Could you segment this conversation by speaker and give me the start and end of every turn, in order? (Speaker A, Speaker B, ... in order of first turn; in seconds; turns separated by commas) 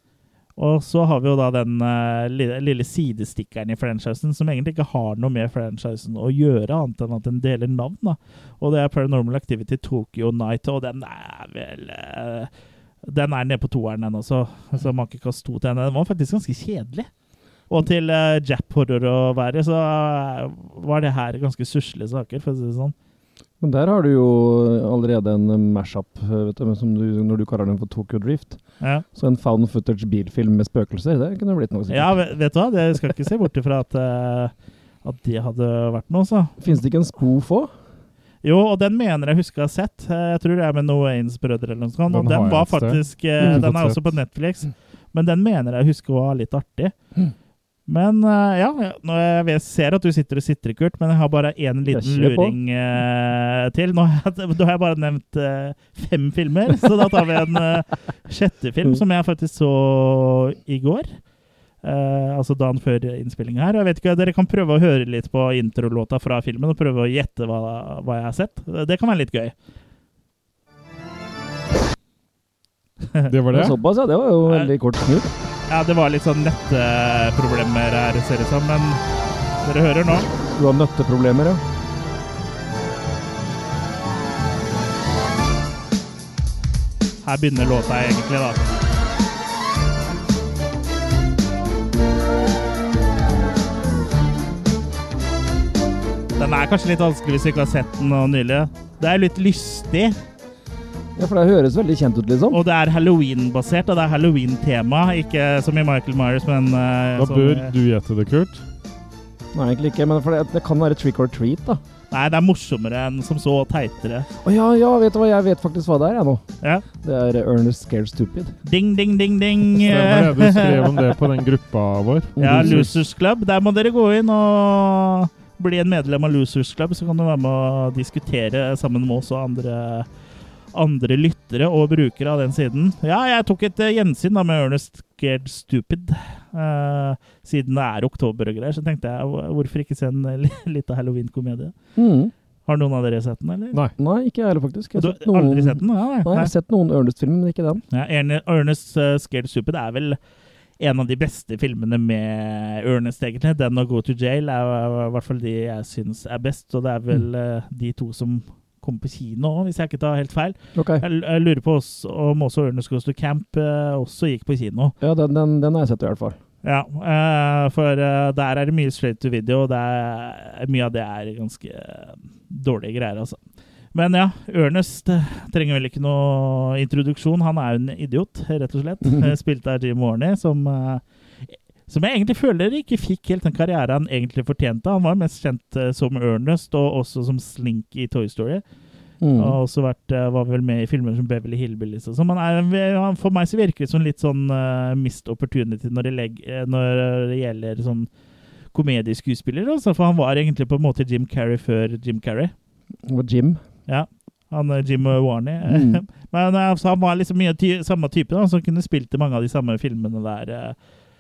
Speaker A: 0.6-12.5, Speaker A: 13.0-17.1, Speaker A: 17.7-22.9, Speaker B: 23.6-28.6, Speaker A: 28.8-29.1, Speaker B: 29.1-32.2, Speaker A: 31.9-34.5, Speaker A: 35.0-36.6, Speaker B: 36.6-37.7, Speaker A: 38.4-46.9, Speaker C: 42.1-44.1, Speaker A: 47.9-61.2, Speaker B: 51.9-52.6, Speaker A: 61.8-69.5, Speaker C: 73.3-73.8, Speaker B: 73.5-75.3, Speaker A: 75.7-79.0, Speaker A: 79.6-80.3, Speaker B: 80.5-81.6, Speaker A: 87.2-88.8, Speaker A: 96.4-100.2, Speaker B: 101.2-102.6, Speaker A: 102.5-107.7, Speaker C: 107.2-108.6, Speaker B: 109.5-111.8, Speaker A: 112.1-114.3, Speaker B: 114.4-118.5, Speaker A: 118.7-121.1, Speaker C: 119.8-122.9, Speaker B: 122.4-122.9, Speaker A: 122.4-130.1, Speaker A: 130.7-141.7, Speaker B: 142.0-142.3, Speaker A: 142.7-143.8, Speaker B: 144.0-147.8, Speaker A: 145.0-146.5, Speaker A: 147.9-150.2, Speaker A: 150.8-164.9, Speaker B: 160.8-161.0, Speaker B: 165.0-166.4, Speaker A: 166.6-173.4, Speaker A: 173.9-188.6, Speaker B: 179.1-179.3, Speaker B: 189.2-189.6, Speaker A: 189.4-198.1, Speaker A: 198.7-202.5, Speaker B: 203.0-203.6, Speaker A: 203.9-210.8, Speaker B: 205.7-206.0